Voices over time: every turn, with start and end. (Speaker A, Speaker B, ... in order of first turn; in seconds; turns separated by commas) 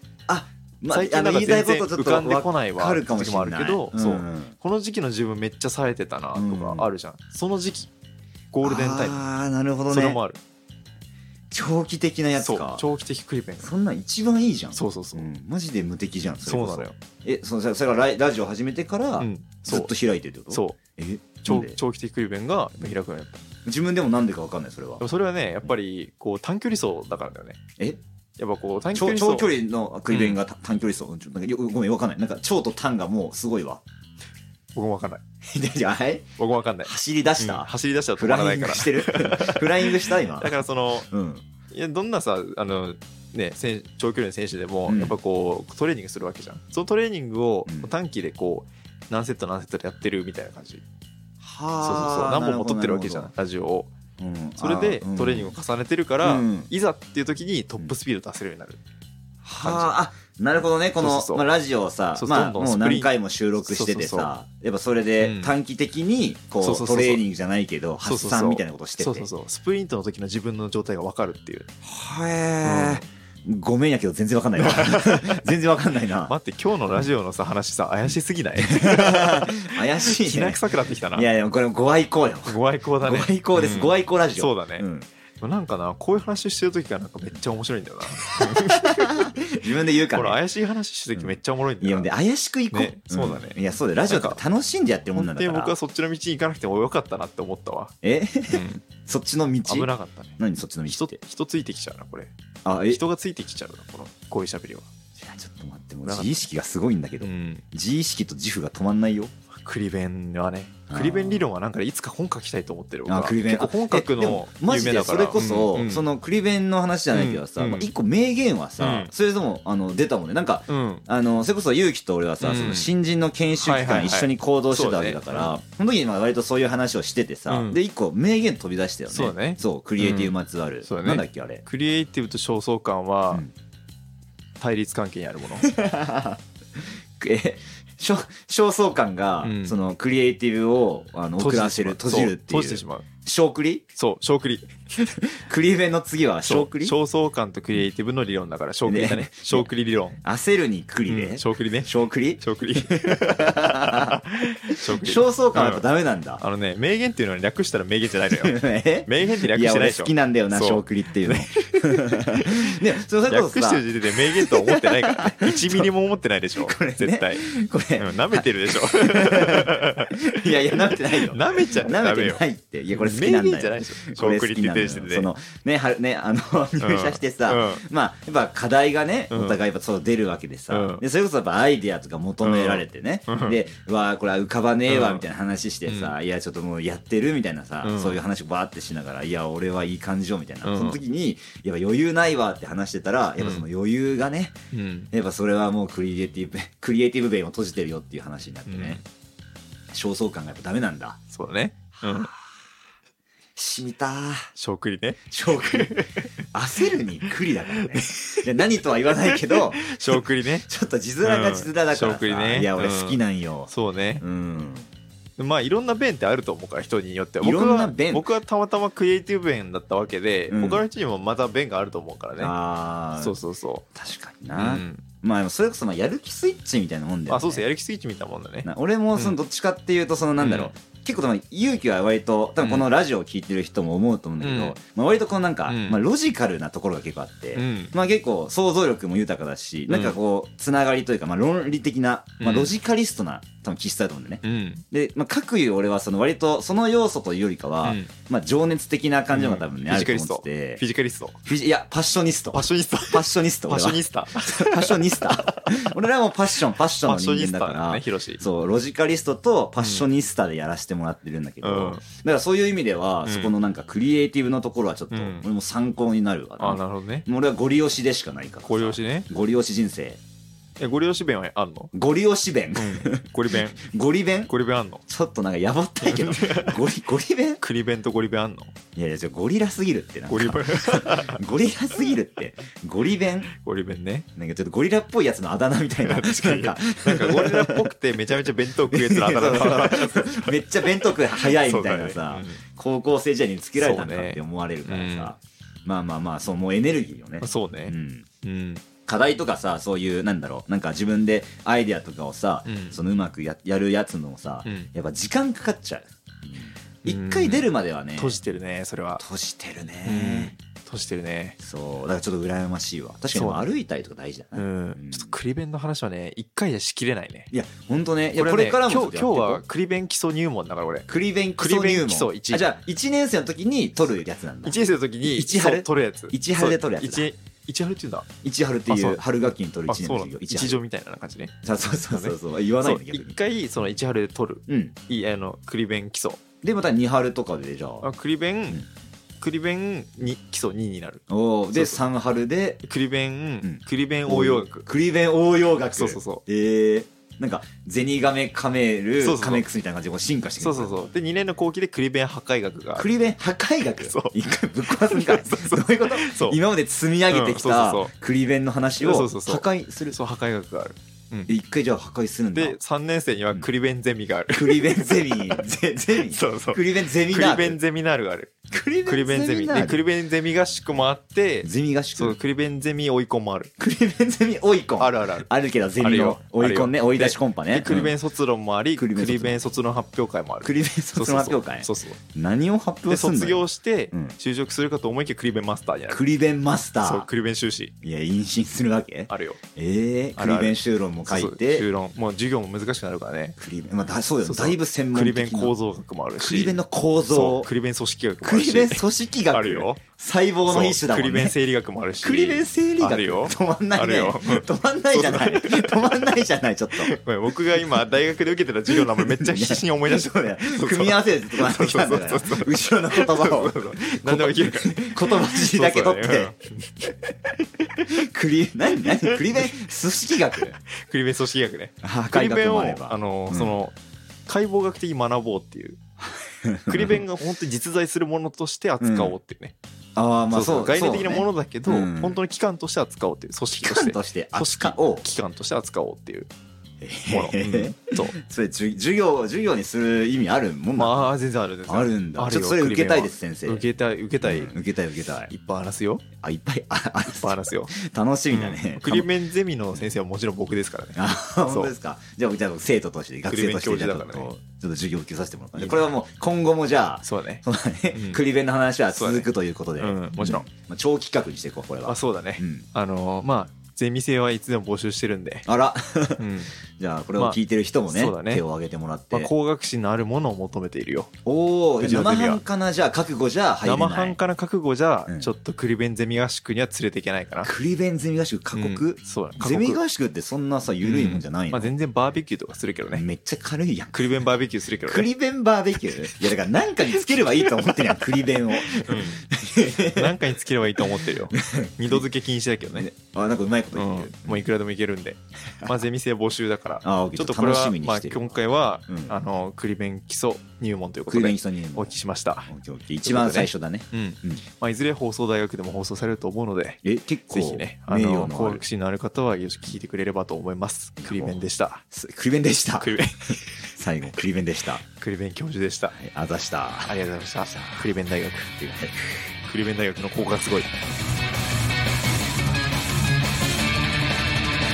Speaker A: 0.3-4.5, Speaker B: 0.9-7.9, Speaker A: 6.3-6.9, Speaker B: 8.5-9.2, Speaker A: 8.6-10.2, Speaker B: 9.9-10.4, Speaker A: 11.5-12.8, Speaker B: 12.4-13.7, Speaker A: 13.6-21.8, Speaker B: 14.7-15.3, Speaker B: 16.4-16.9, Speaker B: 19.2-19.9, Speaker B: 20.5-20.8, Speaker B: 21.4-23.4, Speaker A: 23.6-25.0, Speaker B: 25.0-27.6, Speaker B: 28.4-29.5, Speaker A: 28.9-33.8, Speaker B: 30.1-30.4, Speaker B: 34.7-35.2, Speaker A: 35.4-36.3, Speaker B: 36.4-41.1, Speaker A: 36.8-40.6, Speaker A: 41.1-41.4, Speaker B: 41.7-50.8, Speaker A: 44.9-45.2, Speaker A: 47.6-47.9, Speaker A: 51.4-53.3, Speaker B: 51.8-53.9, Speaker A: 54.2-55.5, Speaker B: 54.6-58.8, Speaker A: 56.2-56.7, Speaker A: 59.4-69.3, Speaker B: 59.6-60.0, Speaker B: 61.0-61.4, Speaker B: 62.1-63.1, Speaker B: 63.6-64.3, Speaker B: 65.2-65.5, Speaker B: 66.6-67.2, Speaker B: 68.0-71.7, Speaker A: 71.8-76.3, Speaker B: 72.6-73.0, Speaker B: 74.6-75.4, Speaker B: 76.2-81.3, Speaker A: 78.6-80.6, Speaker A: 81.1-85.1, Speaker B: 82.5-84.8, Speaker B: 85.4-89.3, Speaker A: 88.4-90.4, Speaker B: 90.1-92.1, Speaker A: 91.2-95.7, Speaker B: 92.7-93.6, Speaker B: 94.1-94.4, Speaker B: 95.1-97.9, Speaker A: 98.0-101.2, Speaker B: 98.5-98.8, Speaker B: 99.7-102.3, Speaker A: 102.6-103.0, Speaker B: 102.9-104.9, Speaker A: 105.2-109.3, Speaker B: 106.0-106.4, Speaker B: 107.2-107.6, Speaker B: 109.5-116.0, Speaker A: 110.9-111.5, Speaker A: 113.1-131.6, Speaker B: 117.1-117.9, Speaker B: 118.8-119.1, Speaker B: 120.7-121.0, Speaker B: 122.4-122.9, Speaker B: 123.6-125.5, Speaker B: 127.5-127.8, Speaker B: 129.1-130.3, Speaker B: 130.8-133.4, Speaker B: 134.6-135.7, Speaker A: 135.6-143.8, Speaker B: 139.4-139.8, Speaker B: 141.4-143.1, Speaker B: 143.9-144.7, Speaker A: 145.0-146.9, Speaker B: 146.4-150.2, Speaker A: 148.8-149.7, Speaker A: 150.2-156.4, Speaker B: 151.1-155.8, Speaker B: 156.4-167.5, Speaker A: 158.3-165.9, Speaker A: 166.6-194.6, Speaker B: 168.0-175.3, Speaker B: 176.8-177.8, Speaker B: 179.3-179.6, Speaker B: 180.7-181.0, Speaker B: 182.4-183.6, Speaker B: 184.9-185.2, Speaker B: 185.9-186.1, Speaker B: 187.8-188.2, Speaker B: 190.6-191.0, Speaker B: 193.4-193.7, Speaker B: 194.7-195.1, Speaker A: 195.1-199.0, Speaker B: 198.7-199.0, Speaker A: 199.9-201.2, Speaker B: 201.3-202.3, Speaker A: 202.0-202.4, Speaker A: 203.6-204.5, Speaker B: 204.6-206.4, Speaker A: 205.3-206.0, Speaker A: 206.5-213.7, Speaker B: 207.7-210.7, Speaker B: 211.2-214.2, Speaker A: 214.2-214.9, Speaker B: 215.4-222.5, Speaker A: 217.4-218.3, Speaker A: 220.5-220.8, Speaker A: 222.4-223.3, Speaker B: 223.2-223.8, Speaker A: 223.9-227.6, Speaker B: 224.5-225.0, Speaker B: 227.3-229.4, Speaker A: 228.6-250.8, Speaker B: 230.4-230.7, Speaker B: 232.6-232.8, Speaker B: 234.4-234.8, Speaker B: 235.7-236.0, Speaker B: 237.5-237.9, Speaker B: 239.9-240.2, Speaker B: 242.4-242.7, Speaker B: 244.4-244.8, Speaker B: 247.8-248.1, Speaker B: 249.3-251.4, Speaker A: 251.4-270.2, Speaker B: 252.5-255.9, Speaker B: 257.0-258.4, Speaker B: 259.8-260.0, Speaker B: 261.6-262.0, Speaker B: 263.2-263.5, Speaker B: 265.1-265.4, Speaker B: 266.6-267.3, Speaker B: 268.6-269.3, Speaker B: 270.8-271.9, Speaker A: 271.9-274.5, Speaker B: 272.7-273.8, Speaker B: 274.5-275.0, Speaker A: 275.1-277.6, Speaker B: 276.0-276.8, Speaker B: 277.6-278.7, Speaker A: 278.9-283.5, Speaker B: 280.3-281.4, Speaker B: 283.5-284.3, Speaker A: 284.4-287.9, Speaker B: 286.0-292.6, Speaker A: 288.9-298.2, Speaker B: 293.8-295.3, Speaker B: 297.4-298.8, Speaker A: 299.1-308.4, Speaker B: 302.6-303.0, Speaker B: 304.6-304.9, Speaker B: 307.0-309.2, Speaker A: 309.2-310.5, Speaker B: 310.0-311.6, Speaker A: 311.6-315.3, Speaker B: 313.3-313.6, Speaker B: 314.5-317.5, Speaker A: 317.5-319.6, Speaker B: 318.4-322.6, Speaker A: 321.1-327.3, Speaker B: 324.6-328.3, Speaker A: 328.4-330.8, Speaker B: 328.9-336.4, Speaker A: 331.6-333.4, Speaker A: 334.7-334.9, Speaker A: 336.6-338.1, Speaker B: 338.0-338.8, Speaker B: 339.4-342.0, Speaker A: 341.3-342.8, Speaker B: 342.8-344.9, Speaker A: 343.6-351.0, Speaker B: 345.9-346.4, Speaker B: 349.2-349.6, Speaker B: 350.6-353.1, Speaker A: 352.9-360.2, Speaker B: 354.0-356.6, Speaker B: 357.3-358.1, Speaker B: 359.0-361.5, Speaker A: 361.5-362.8, Speaker B: 362.5-365.6, Speaker A: 364.5-367.8, Speaker B: 366.2-373.7, Speaker A: 368.7-370.0, Speaker A: 371.6-372.4, Speaker A: 373.8-378.1, Speaker B: 375.0-375.5, Speaker B: 376.0-382.2, Speaker A: 378.9-379.7, Speaker A: 380.6-384.4, Speaker B: 383.1-386.2, Speaker A: 386.1-387.3, Speaker B: 387.0-387.9, Speaker A: 388.0-391.9, Speaker B: 389.3-389.6, Speaker B: 390.4-390.8, Speaker B: 391.3-393.6, Speaker A: 393.6-395.7, Speaker B: 394.4-396.8, Speaker A: 396.4-397.7, Speaker B: 397.3-400.0, Speaker A: 398.4-401.5, Speaker B: 400.7-406.0, Speaker A: 402.2-407.1, Speaker B: 406.9-418.1, Speaker A: 408.9-416.5, Speaker A: 418.1-420.8, Speaker B: 418.9-419.8, Speaker B: 420.5-423.9, Speaker A: 422.0-423.7, Speaker B: 424.5-426.0, Speaker A: 426.2-427.2, Speaker B: 426.9-429.7, Speaker A: 429.0-429.4, Speaker A: 430.1-432.4, Speaker B: 430.5-436.5, Speaker A: 433.7-435.2, Speaker A: 437.0-441.3, Speaker B: 437.3-438.4, Speaker B: 440.9-444.7, Speaker A: 441.9-443.8, Speaker A: 444.4-445.5, Speaker B: 445.5-446.2, Speaker A: 446.4-449.3, Speaker B: 447.3-447.9, Speaker B: 448.5-451.9, Speaker A: 451.1-462.8, Speaker B: 453.5-454.5, Speaker B: 455.8-456.0, Speaker B: 457.2-458.4, Speaker B: 459.1-460.7, Speaker B: 462.1-465.7, Speaker A: 465.6-466.4, Speaker B: 466.4-466.7, Speaker A: 466.9-469.5, Speaker B: 468.1-468.6, Speaker B: 469.3-471.3, Speaker A: 471.4-474.4, Speaker B: 472.0-472.6, Speaker B: 473.8-477.7, Speaker A: 477.6-481.9, Speaker B: 478.7-480.0, Speaker B: 481.0-483.2, Speaker A: 483.1-484.4, Speaker B: 484.1-485.3, Speaker A: 485.1-490.4, Speaker B: 487.2-488.1, Speaker B: 488.7-489.5, Speaker B: 490.1-493.1, Speaker A: 490.9-492.3, Speaker A: 492.9-494.7, Speaker B: 493.9-502.7, Speaker A: 497.0-498.5, Speaker A: 499.1-499.3, Speaker A: 501.3-502.1, Speaker A: 502.7-504.6, Speaker B: 503.2-512.0, Speaker A: 507.0-508.8, Speaker A: 511.2-511.6, Speaker A: 512.1-513.2, Speaker B: 513.0-513.7, Speaker A: 513.9-515.0, Speaker B: 515.1-516.2, Speaker A: 516.1-517.1, Speaker B: 517.0-518.7, Speaker A: 517.6-518.1, Speaker A: 518.8-519.4, Speaker B: 519.7-520.9